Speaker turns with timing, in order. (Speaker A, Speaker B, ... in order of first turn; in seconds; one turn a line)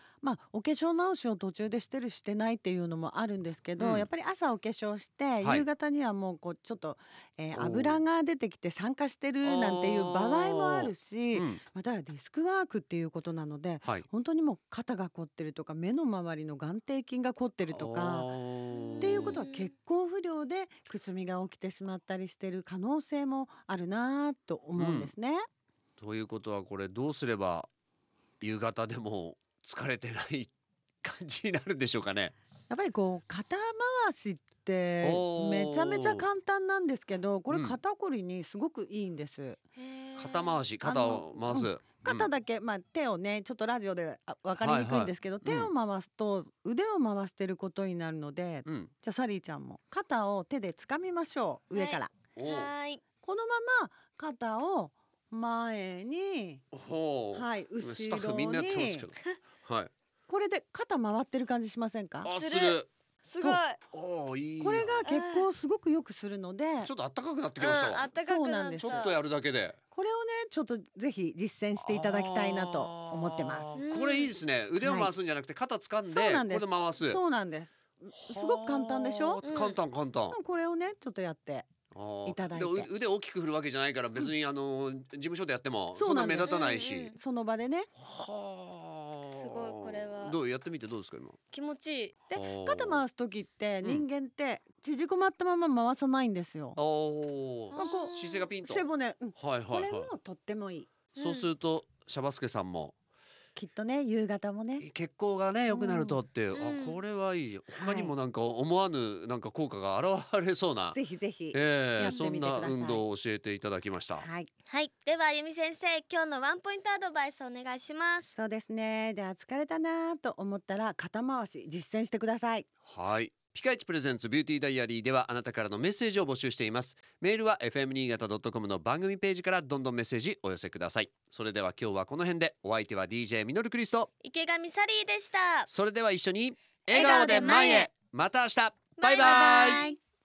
Speaker A: 0.2-18.3
Speaker B: 3.8-4.1
Speaker B: 7.5-8.0
Speaker B: 9.4-11.6
Speaker B: 17.7-19.4
Speaker C: 18.7-19.7
Speaker A: 19.0-25.4
Speaker B: 24.8-25.1
Speaker B: 26.0-27.7
Speaker B: 28.4-30.5
Speaker B: 31.0-32.3
Speaker A: 32.7-39.6
Speaker B: 35.0-36.2
Speaker B: 37.5-37.8
Speaker C: 39.8-40.6
Speaker B: 40.1-42.3
Speaker A: 40.8-52.1
Speaker B: 44.6-45.7
Speaker B: 48.6-48.9
Speaker C: 51.7-53.0
Speaker B: 52.4-52.7
Speaker A: 53.2-56.6
Speaker B: 56.7-59.9
Speaker A: 57.3-59.0
Speaker A: 60.3-62.3
Speaker B: 62.2-62.9
Speaker C: 62.4-63.8
Speaker B: 63.9-65.0
Speaker A: 64.6-66.9
Speaker C: 65.0-65.5
Speaker B: 66.8-68.1
Speaker C: 67.6-69.1
Speaker A: 68.1-69.1
Speaker B: 68.8-69.8
Speaker A: 69.9-73.7
Speaker B: 71.8-77.2
Speaker C: 73.8-74.4
Speaker A: 74.8-75.1
Speaker A: 76.0-79.4
Speaker B: 78.2-80.4
Speaker C: 79.4-79.8
Speaker A: 80.3-81.7
Speaker B: 81.9-87.2
Speaker A: 82.2-82.9
Speaker A: 85.9-87.9
Speaker C: 86.4-87.2
Speaker B: 88.0-91.4
Speaker C: 89.3-90.3
Speaker C: 91.5-92.1
Speaker A: 92.3-96.8
Speaker B: 92.3-93.0
Speaker B: 96.8-98.8
Speaker C: 97.7-98.5
Speaker A: 97.7-100.9
Speaker B: 99.3-100.1
Speaker C: 101.1-101.5
Speaker B: 101.2-102.9
Speaker A: 103.5-104.8
Speaker B: 104.8-111.0
Speaker A: 105.7-106.2
Speaker C: 106.5-107.0
Speaker A: 107.7-108.1
Speaker A: 110.9-113.0
Speaker B: 111.5-114.3
Speaker A: 114.2-114.5
Speaker C: 114.7-118.3
Speaker A: 118.3-122.7
Speaker B: 122.8-134.1
Speaker C: 134.2-135.7
Speaker B: 135.7-139.8
Speaker C: 136.9-137.9
Speaker A: 136.9-137.8
Speaker C: 139.0-140.0
Speaker A: 139.2-139.9